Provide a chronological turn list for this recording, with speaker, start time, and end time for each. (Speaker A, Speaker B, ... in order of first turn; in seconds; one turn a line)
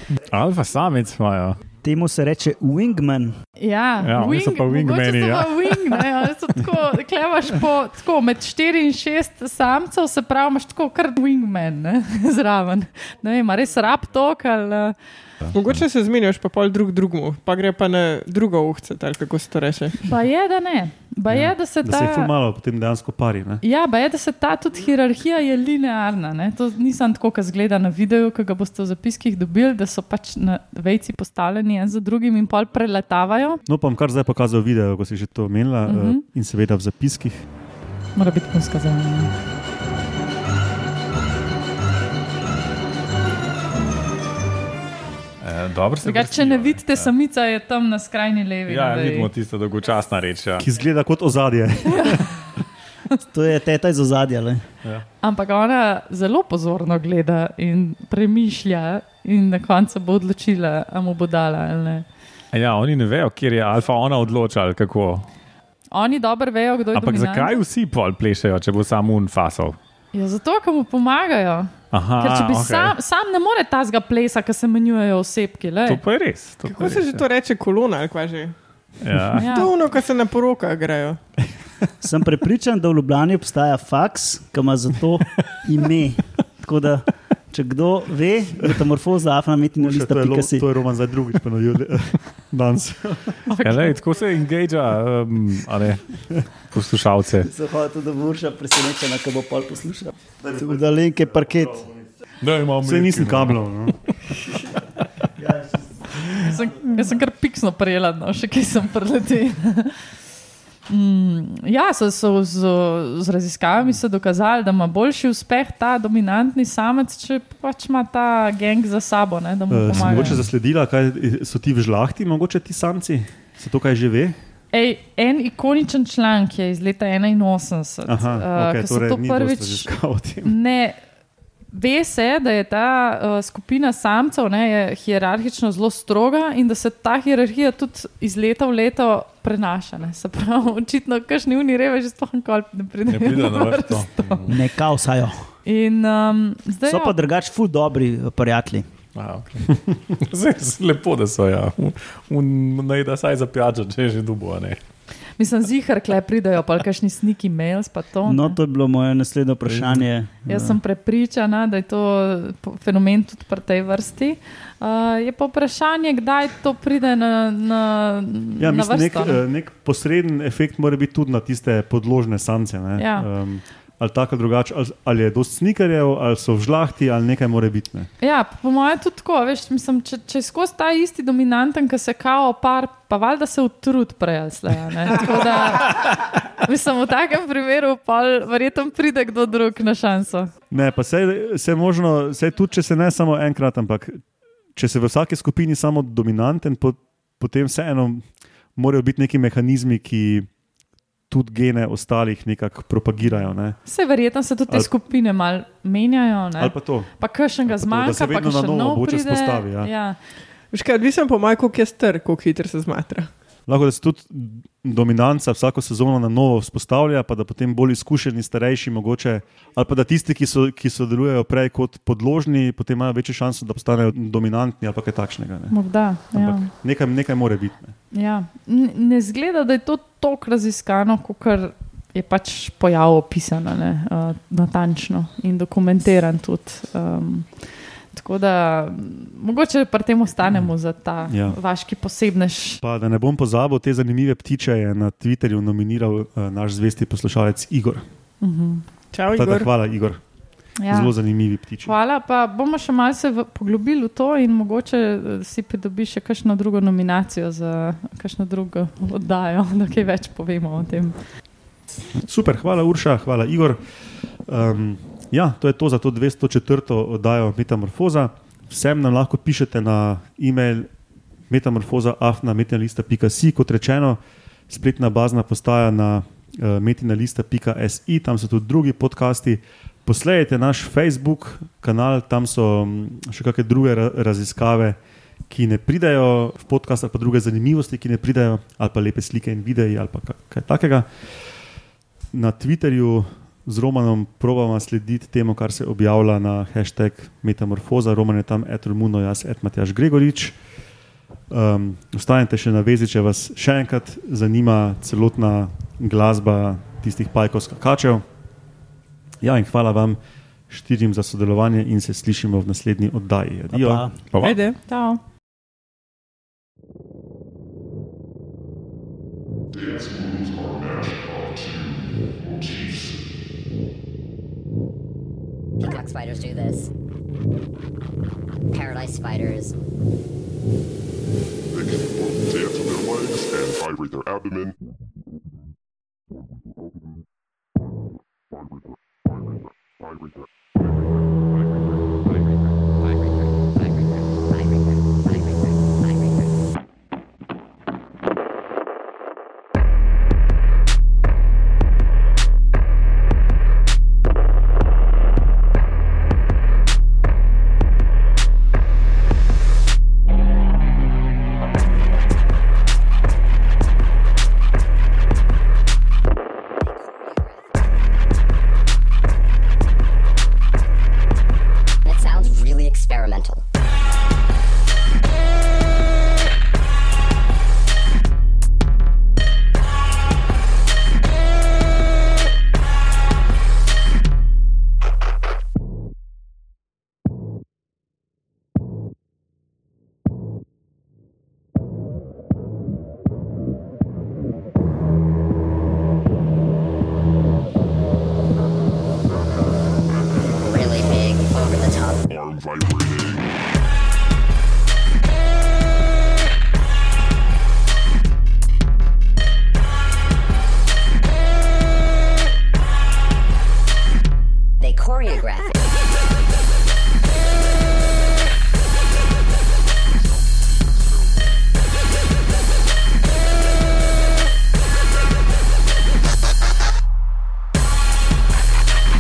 Speaker A: 0.2-1.6
Speaker B: 1.8-3.4
Speaker C: 3.6-14.9
Speaker A: 4.0-6.0
Speaker D: 15.5-20.0
Speaker C: 20.0-22.3
Speaker E: 21.3-23.6
Speaker C: 23.6-33.6
Speaker E: 33.7-37.5
Speaker C: 35.9-36.2
Speaker C: 38.2-39.3
Speaker A: 45.4-47.1
Speaker C: 46.0-49.3
Speaker A: 48.7-50.7
Speaker E: 50.6-52.5
Speaker B: 53.3-54.6
Speaker C: 55.2-62.1
Speaker A: 62.5-65.3
Speaker C: 65.9-67.6
Speaker A: 66.9-69.8
Speaker C: 70.1-76.0
Speaker A: 71.9-73.0
Speaker A: 75.9-77.2
Speaker D: 76.7-78.5
Speaker A: 79.0-79.6
Speaker D: 79.3-81.2
Speaker C: 79.4-79.7
Speaker B: 82.0-90.7
Speaker E: 89.8-93.4
Speaker C: 93.5-94.0
Speaker A: 93.6-97.5
Speaker B: 97.4-101.9
Speaker E: 100.4-100.8
Speaker A: 102.4-104.1
Speaker E: 102.8-104.0
Speaker B: 105.4-106.9
Speaker C: 106.4-110.1
Speaker C: 110.9-120.4
Speaker E: 119.7-124.4
Speaker A: 119.9-120.5
Speaker C: 124.7-129.9
Speaker E: 128.1-130.5
Speaker C: 130.4-131.0
Speaker C: 131.7-144.5
Speaker A: 143.1-144.6
Speaker B: 144.5-145.5
Speaker C: 145.7-147.2
Speaker B: 146.9-148.9
Speaker A: 149.2-154.8
Speaker C: 155.4-158.6
Speaker B: 158.3-160.8
Speaker A: 159.7-160.1
Speaker C: 160.5-169.4
Speaker E: 168.6-178.1
Speaker C: 173.0-173.3
Speaker C: 178.2-190.5
Speaker E: 190.7-194.2
Speaker E: 194.8-200.5
Speaker E: 201.3-203.8
Speaker C: 203.8-210.2
Speaker E: 206.6-209.9
Speaker D: 210.7-213.3
Speaker E: 213.7-227.9
Speaker C: 225.7-226.7
Speaker C: 228.1-242.8
Speaker E: 241.3-241.6
Speaker E: 242.8-248.0
Speaker C: 248.4-248.8
Speaker D: 249.1-249.7
Speaker E: 249.3-250.2
Speaker C: 250.8-251.1
Speaker E: 250.9-251.9
Speaker C: 251.8-261.2
Speaker E: 262.2-263.8
Speaker E: 264.4-270.9
Speaker E: 271.5-285.0
Speaker E: 285.5-291.4
Speaker E: 292.3-300.6
Speaker E: 301.5-308.2
Speaker E: 309.4-314.1
Speaker B: 313.7-314.2
Speaker A: 314.3-314.6
Speaker C: 314.4-315.2
Speaker F: 319.7-323.3
Speaker G: 325.8-326.9
Speaker G: 328.7-329.7
Speaker F: 331.7-334.7
Speaker G: 342.2-346.6
Speaker G: 366.8-367.6
Speaker G: 372.1-373.6
Speaker F: 400.1-400.6
Speaker G: 400.6-402.3
Speaker F: 402.3-403.5
Speaker G: 414.8-415.8